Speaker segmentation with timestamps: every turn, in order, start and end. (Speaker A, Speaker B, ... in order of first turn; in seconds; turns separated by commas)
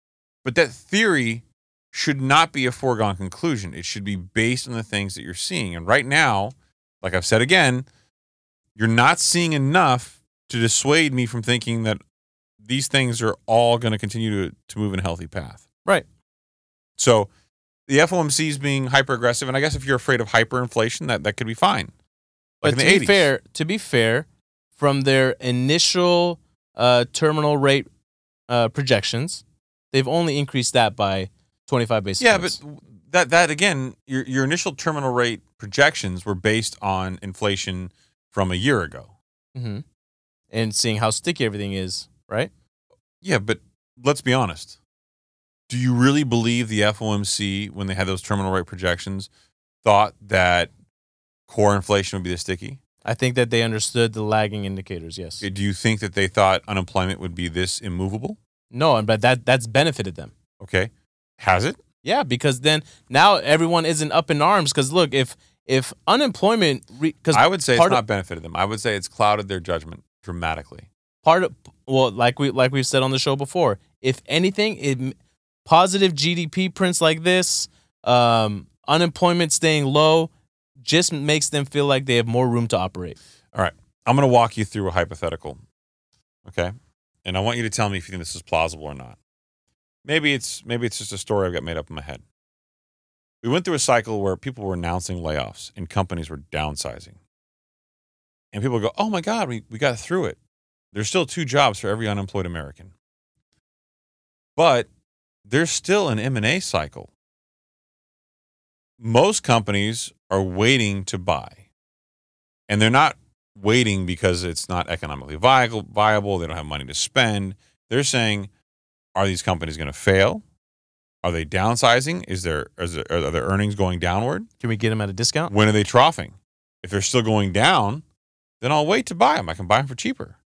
Speaker A: 0.4-7.9, Speaker A: 8.7-12.0, Speaker A: 12.6-15.6, Speaker A: 17.0-17.3, Speaker A: 17.9-21.9, Speaker A: 22.6-23.3, Speaker B: 22.6-27.9, Speaker B: 28.5-32.6, Speaker A: 32.2-39.1, Speaker B: 39.5-39.8, Speaker B: 40.5-42.5, Speaker A: 43.2-44.8, Speaker A: 45.7-49.3, Speaker A: 49.8-50.7, Speaker A: 51.5-52.8, Speaker B: 53.0-55.4, Speaker A: 55.4-58.4, Speaker B: 58.7-60.3, Speaker A: 60.6-61.8, Speaker B: 62.0-68.0, Speaker A: 67.3-70.9, Speaker B: 71.2-75.1, Speaker B: 75.6-80.3, Speaker B: 80.8-83.2, Speaker A: 83.5-85.6, Speaker A: 86.5-86.7, Speaker A: 87.2-89.2, Speaker A: 90.0-92.2, Speaker A: 93.4-97.2, Speaker A: 98.5-100.4, Speaker A: 100.9-102.9, Speaker A: 104.5-104.9, Speaker A: 105.4-107.1, Speaker A: 109.0-111.6, Speaker A: 112.7-118.5, Speaker A: 119.2-120.4, Speaker A: 121.2-124.5, Speaker B: 124.6-125.5, Speaker A: 125.5-128.0, Speaker A: 128.6-130.4